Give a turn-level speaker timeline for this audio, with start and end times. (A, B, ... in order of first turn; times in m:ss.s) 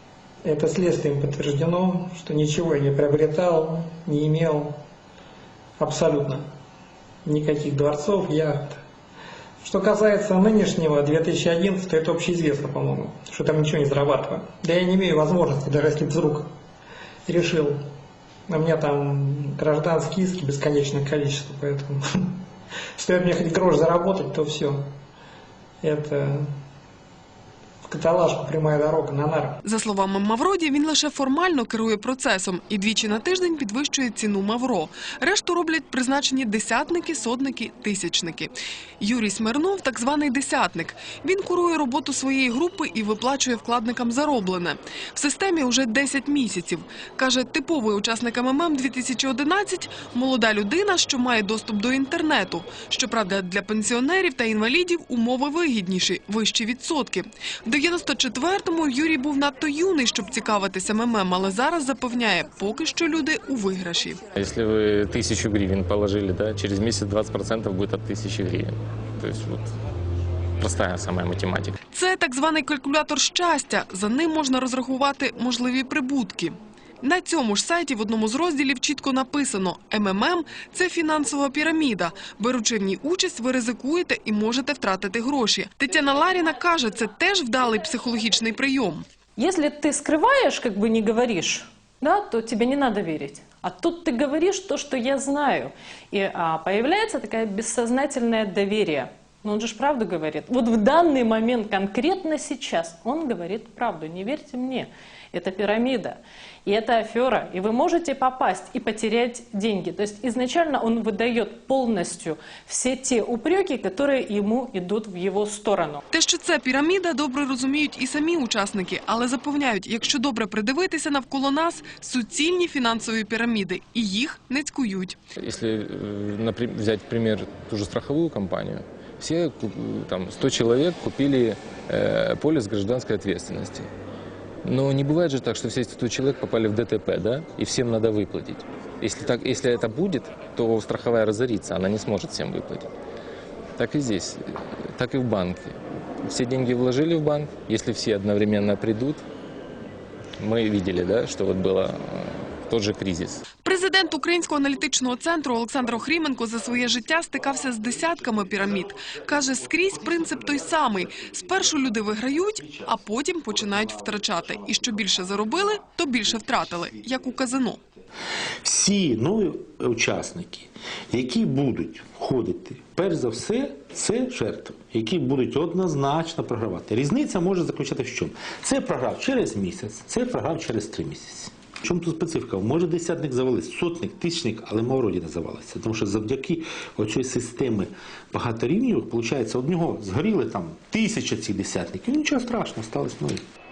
0:00.4-0:04.8 A
0:05.8-0:06.4 A
0:07.2-0:08.8 A
0:09.6-0:16.5 A
0:17.3-0:17.8 A
0:18.5-0:22.4 A
0:23.0-0:24.9 A
0:25.8-0:26.5 A
0:27.8-0:29.6 A
0:29.6-1:04.2 B
1:04.3-1:09.7 C
1:10.6-1:11.8 C
1:11.9-1:29.0 B
1:29.4-1:56.0 D
1:56.1-2:05.2 B
2:05.4-2:13.9 C
2:14.6-2:22.9 C
2:23.8-2:24.4 C
2:25.0-2:25.7 C
2:26.2-2:29.2 C
2:30.4-2:33.4 C
2:33.6-2:47.8 B
2:48.6-3:13.4 E